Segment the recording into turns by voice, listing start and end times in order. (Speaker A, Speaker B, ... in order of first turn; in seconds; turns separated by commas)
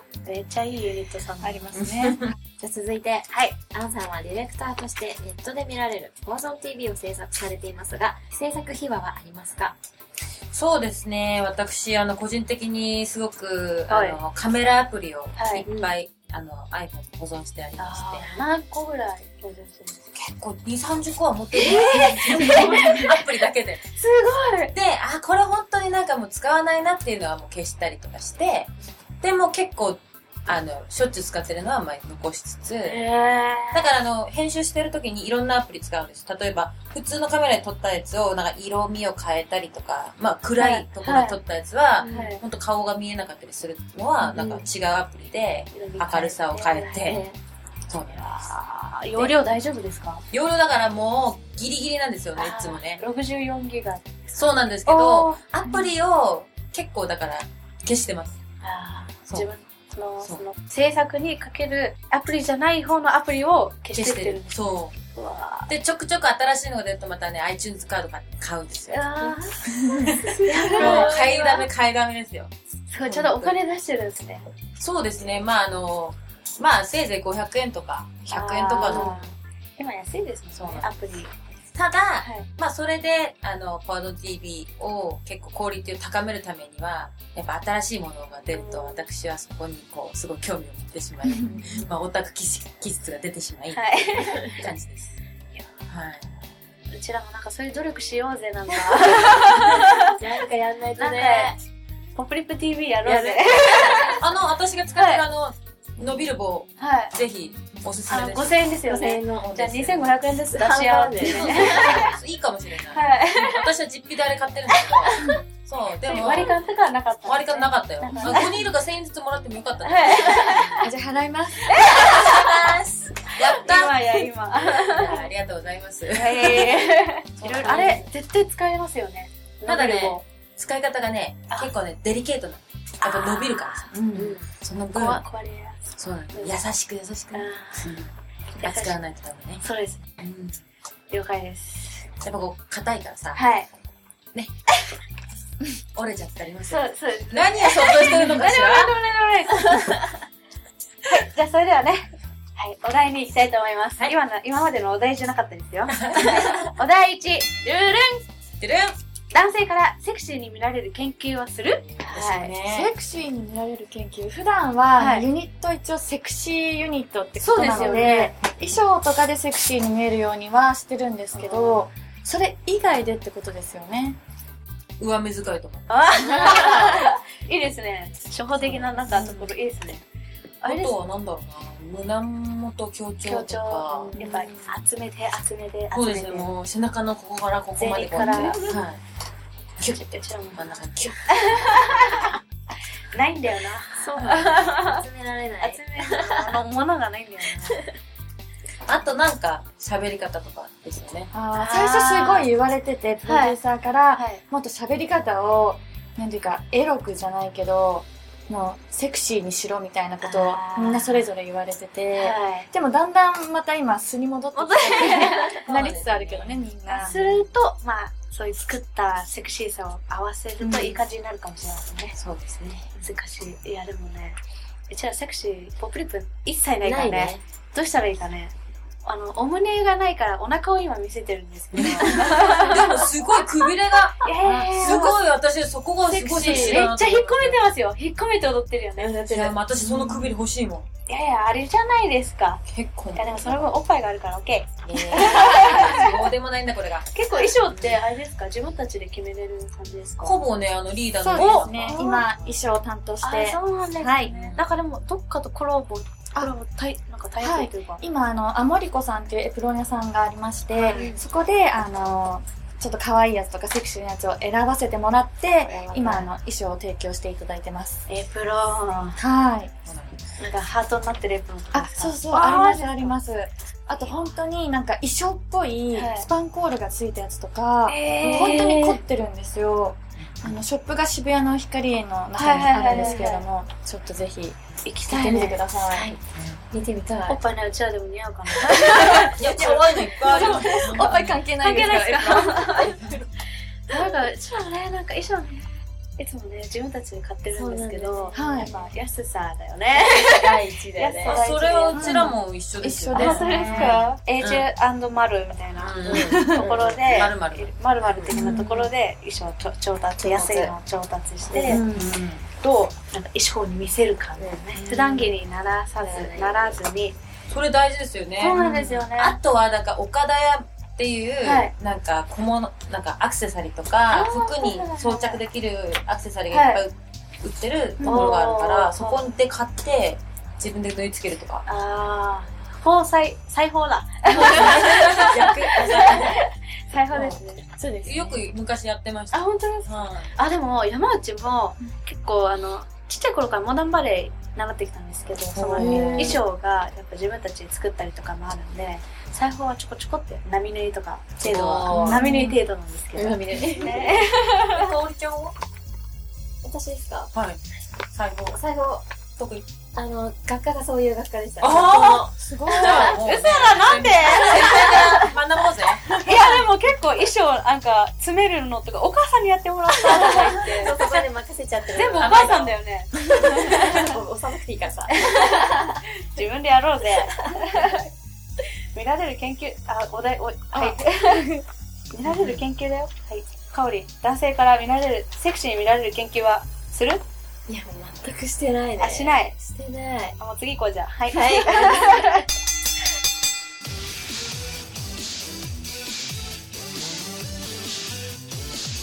Speaker A: 0.2-1.8, Speaker B: 1.4-2.3, Speaker C: 1.8-2.3, Speaker D: 2.6-9.8, Speaker A: 3.3-3.6, Speaker C: 10.5-18.4, Speaker A: 13.9-14.2, Speaker A: 15.3-15.7, Speaker D: 15.7-15.9, Speaker A: 17.8-20.0, Speaker C: 20.1-23.9, Speaker A: 21.6-23.2, Speaker A: 24.0-24.7, Speaker C: 24.7-33.0, Speaker A: 32.8-33.9, Speaker C: 33.7-47.2, Speaker A: 40.6-41.4, Speaker D: 42.0-42.4, Speaker A: 42.0-42.4, Speaker D: 44.3-44.6, Speaker A: 45.7-47.2, Speaker D: 47.0-47.4, Speaker C: 47.9-48.5, Speaker A: 48.1-50.2, Speaker C: 50.3-53.0, Speaker A: 52.3-55.4, Speaker C: 54.3-58.4, Speaker A: 58.6-64.6, Speaker C: 63.9-65.0, Speaker A: 65.1-65.7, Speaker C: 65.7-69.1, Speaker A: 68.9-69.6, Speaker D: 69.1-71.7, Speaker C: 69.6-73.5, Speaker A: 70.3-71.1, Speaker A: 72.9-74.5, Speaker C: 74.8-79.2, Speaker A: 78.3-81.3, Speaker D: 78.8-79.2, Speaker C: 80.5-80.9, Speaker C: 81.7-95.2, Speaker A: 82.2-82.5, Speaker A: 88.5-89.1, Speaker B: 91.3-91.5, Speaker D: 91.5-91.9, Speaker A: 93.7-94.6, Speaker C: 95.9-96.4, Speaker A: 96.9-100.1, Speaker D: 99.0-101.6, Speaker A: 101.0-101.6, Speaker A: 102.1-104.2, Speaker D: 103.0-104.4, Speaker C: 104.2-108.6, Speaker A: 104.9-105.2, Speaker A: 106.8-107.2, Speaker A: 108.1-112.2, Speaker D: 108.8-109.6, Speaker C: 109.4-110.2, Speaker D: 110.3-112.1, Speaker C: 111.2-116.6, Speaker A: 112.9-113.7, Speaker A: 114.7-115.4, Speaker A: 116.0-118.6, Speaker C: 117.2-120.7, Speaker A: 119.8-120.9, Speaker B: 120.8-121.7, Speaker A: 121.7-122.5, Speaker D: 121.9-123.0, Speaker C: 122.0-126.8, Speaker A: 123.3-125.3, Speaker A: 126.1-130.2, Speaker C: 127.4-128.1, Speaker D: 127.6-128.1, Speaker C: 129.6-135.2, Speaker A: 133.0-133.8, Speaker D: 134.1-134.5, Speaker A: 134.9-135.8, Speaker C: 136.0-139.6, Speaker A: 137.3-137.9, Speaker A: 138.6-139.0, Speaker A: 139.6-140.1, Speaker C: 140.2-140.6, Speaker A: 141.1-142.1, Speaker C: 142.2-143.4, Speaker A: 143.3-143.7, Speaker C: 145.9-148.9, Speaker A: 146.7-150.0, Speaker A: 151.1-158.2, Speaker C: 155.9-156.7, Speaker C: 158.6-159.0, Speaker A: 159.3-162.6, Speaker C: 162.1-162.9, Speaker B: 162.6-174.2, Speaker A: 165.0-165.3, Speaker A: 167.4-168.3, Speaker A: 171.3-171.8, Speaker C: 175.0-176.9, Speaker A: 175.9-180.0, Speaker C: 178.6-179.5, Speaker A: 180.6-180.9, Speaker C: 180.6-184.2, Speaker A: 183.2-186.5, Speaker D: 184.1-184.5, Speaker C: 185.9-189.0, Speaker A: 187.8-188.7, Speaker D: 188.1-188.8, Speaker C: 189.8-191.5, Speaker A: 189.8-192.3, Speaker A: 193.1-195.0, Speaker D: 194.0-196.6, Speaker A: 195.6-197.8, Speaker C: 198.9-201.3, Speaker B: 201.3-217.2, Speaker A: 201.5-202.5, Speaker A: 203.2-203.6, Speaker A: 204.2-204.4, Speaker A: 210.2-211.3, Speaker A: 212.1-212.7, Speaker A: 214.6-215.6, Speaker C: 215.7-217.2, Speaker A: 216.9-222.2, Speaker D: 220.6-221.0, Speaker C: 222.2-222.9, Speaker A: 222.9-233.1, Speaker D: 226.8-227.4, Speaker C: 231.7-237.6, Speaker A: 234.2-235.1, Speaker D: 234.4-235.1, Speaker B: 236.0-236.9, Speaker A: 236.4-239.8, Speaker C: 239.0-240.9, Speaker A: 241.1-242.6, Speaker C: 242.7-243.8, Speaker A: 243.2-246.2, Speaker C: 244.8-248.0, Speaker A: 247.1-250.4, Speaker C: 250.2-252.6, Speaker B: 251.2-254.3, Speaker A: 251.3-252.2, Speaker A: 253.2-258.0, Speaker C: 254.2-254.7, Speaker B: 257.4-268.1, Speaker A: 260.7-261.1, Speaker D: 260.9-261.2, Speaker A: 265.6-266.3, Speaker A: 268.1-269.2, Speaker B: 269.1-269.7, Speaker C: 269.9-270.3, Speaker A: 270.4-273.1, Speaker B: 271.7-286.1, Speaker A: 273.9-274.3, Speaker A: 275.9-276.3, Speaker A: 277.9-278.9, Speaker D: 278.4-279.0, Speaker C: 280.2-280.6, Speaker A: 282.4-283.4, Speaker D: 282.9-283.3, Speaker A: 284.8-285.7, Speaker D: 285.9-287.4, Speaker C: 286.3-286.6, Speaker A: 287.3-289.7, Speaker C: 288.8-291.4, Speaker B: 289.0-292.9, Speaker A: 290.3-293.1, Speaker C: 292.9-293.2, Speaker A: 293.9-295.6, Speaker A: 296.2-302.2, Speaker D: 297.5-298.6, Speaker B: 298.3-298.7, Speaker C: 299.9-304.7, Speaker D: 300.5-301.4, Speaker B: 301.9-304.1, Speaker A: 303.1-311.9, Speaker D: 303.5-304.1, Speaker C: 305.7-307.8, Speaker D: 306.0-307.2, Speaker D: 308.1-308.3, Speaker B: 308.3-308.9, Speaker D: 310.2-310.8, Speaker D: 311.5-312.1, Speaker C: 311.6-312.4, Speaker A: 312.6-317.2, Speaker D: 314.4-315.4, Speaker D: 316.0-316.8, Speaker C: 317.5-331.6, Speaker A: 318.4-319.4, Speaker D: 318.6-319.0, Speaker A: 321.4-321.7, Speaker A: 324.1-325.4, Speaker A: 326.5-326.8, Speaker B: 328.0-328.3, Speaker A: 328.0-329.3, Speaker A: 331.6-337.6, Speaker C: 334.3-336.4, Speaker C: 337.1-337.4, Speaker B: 337.8-338.4, Speaker C: 338.0-340.4, Speaker A: 339.3-354.9, Speaker C: 345.6-346.4, Speaker B: 345.8-346.4, Speaker C: 351.4-352.2, Speaker B: 351.9-352.6, Speaker D: 353.1-354.2, Speaker C: 354.4-355.5, Speaker D: 356.6-357.3, Speaker C: 357.3-357.6, Speaker C: 358.1-358.6, Speaker D: 358.5-359.0, Speaker C: 359.4-359.6, Speaker D: 359.9-363.2, Speaker C: 361.6-366.2, Speaker B: 362.4-363.2, Speaker A: 362.9-365.3, Speaker A: 366.2-371.0, Speaker D: 370.1-372.7, Speaker A: 371.9-374.1, Speaker C: 372.1-372.7, Speaker D: 373.2-375.9, Speaker A: 375.2-378.0, Speaker A: 378.9-381.4, Speaker B: 380.8-381.6, Speaker A: 382.1-387.2, Speaker D: 387.7-390.4, Speaker A: 389.0-389.6, Speaker A: 390.4-392.4, Speaker D: 391.3-392.4